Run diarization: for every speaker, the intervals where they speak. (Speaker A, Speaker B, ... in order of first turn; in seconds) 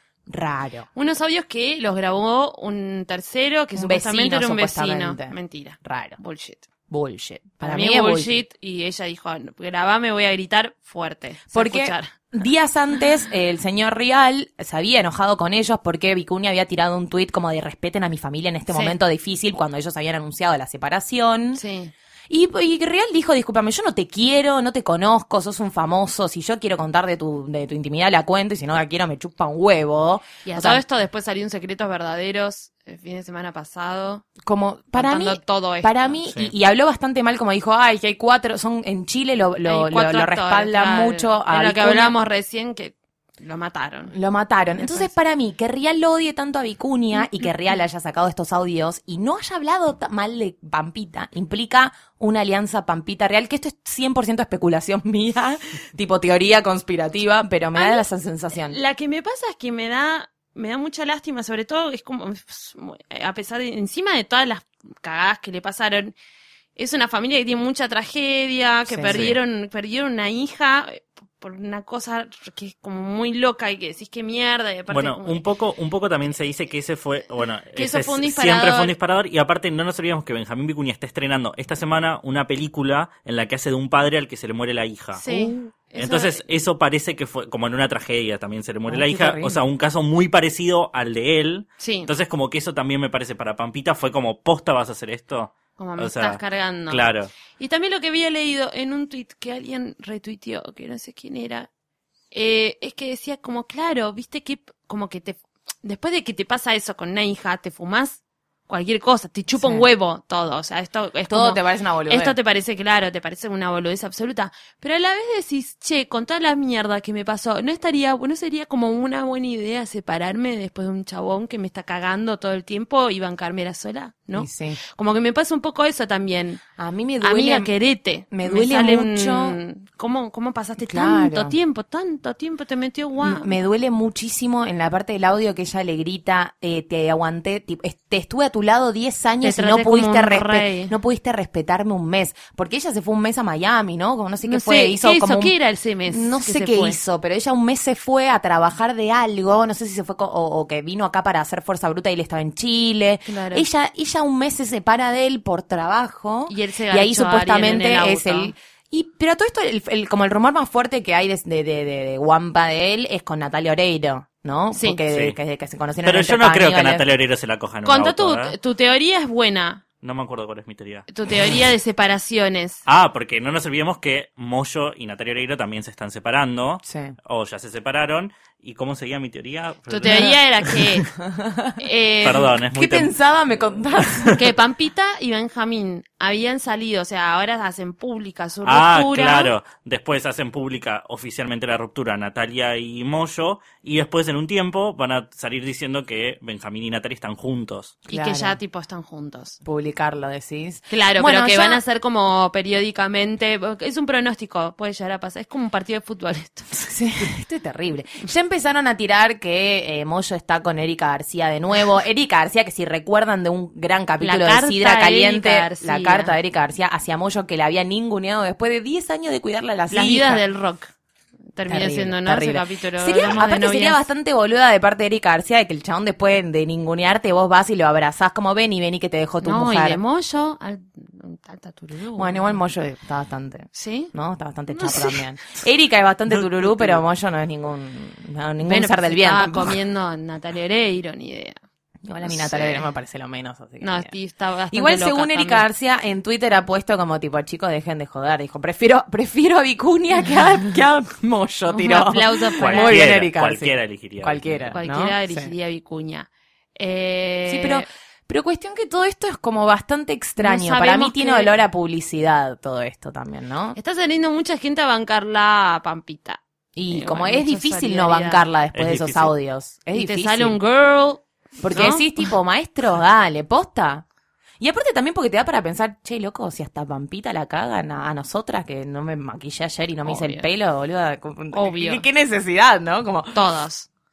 Speaker A: 0.3-0.9, 3.7-6.2, 6.9-8.4, 11.5-21.6, 22.3-30.8, 34.4-42.1, 44.1-58.8, 68.9-69.2, 85.3-85.7, 88.9-89.6, 109.6-109.9, 111.3-112.3, 124.3-124.8, 126.8-127.7, 128.3-129.6, 130.9-131.6, 133.2-145.5, 146.1-167.0, 176.8-177.2, 180.1-180.3, 181.2-184.4, 198.1-198.6, 199.6-201.8, 206.7-220.4, 221.7-230.0, 232.2-239.8, 242.0-244.1, 244.7-255.5, 257.5-263.8, 266.8-270.6, 271.6-274.0, 274.6-283.3
Speaker B: 0.9-6.7, 7.6-12.1, 18.7-18.9, 21.5-21.9, 30.4-34.2, 34.9-36.2, 39.6-44.1, 44.8-45.1, 57.8-58.0, 58.6-66.1, 66.8-75.4, 77.8-78.9, 85.1-86.4, 91.8-92.1, 95.8-101.7, 102.3-126.6, 127.2-133.5, 139.4-140.9, 144.4-147.0, 153.2-153.7, 156.5-158.5, 164.7-165.0, 167.8-169.8, 171.1-172.8, 179.9-181.1, 181.8-182.5, 184.3-189.5, 198.1-199.6, 200.9-206.7, 214.2-216.4, 219.9-220.9, 221.5-224.0, 229.4-232.6, 233.7-234.1, 234.7-235.2, 238.6-241.6, 242.2-242.8, 243.8-245.7, 251.7-253.0, 254.7-257.9, 260.4-261.5, 263.8-268.4, 269.9-272.1, 280.0-280.5, 281.5-282.0, 283.3-283.9
Speaker C: 69.1-69.4, 74.9-85.2, 86.0-97.3, 165.1-165.3, 166.0-168.5, 170.0-171.1, 172.9-180.8, 182.2-183.1, 183.9-184.4, 188.7-198.0, 236.3-237.0, 252.6-254.7, 268.7-269.3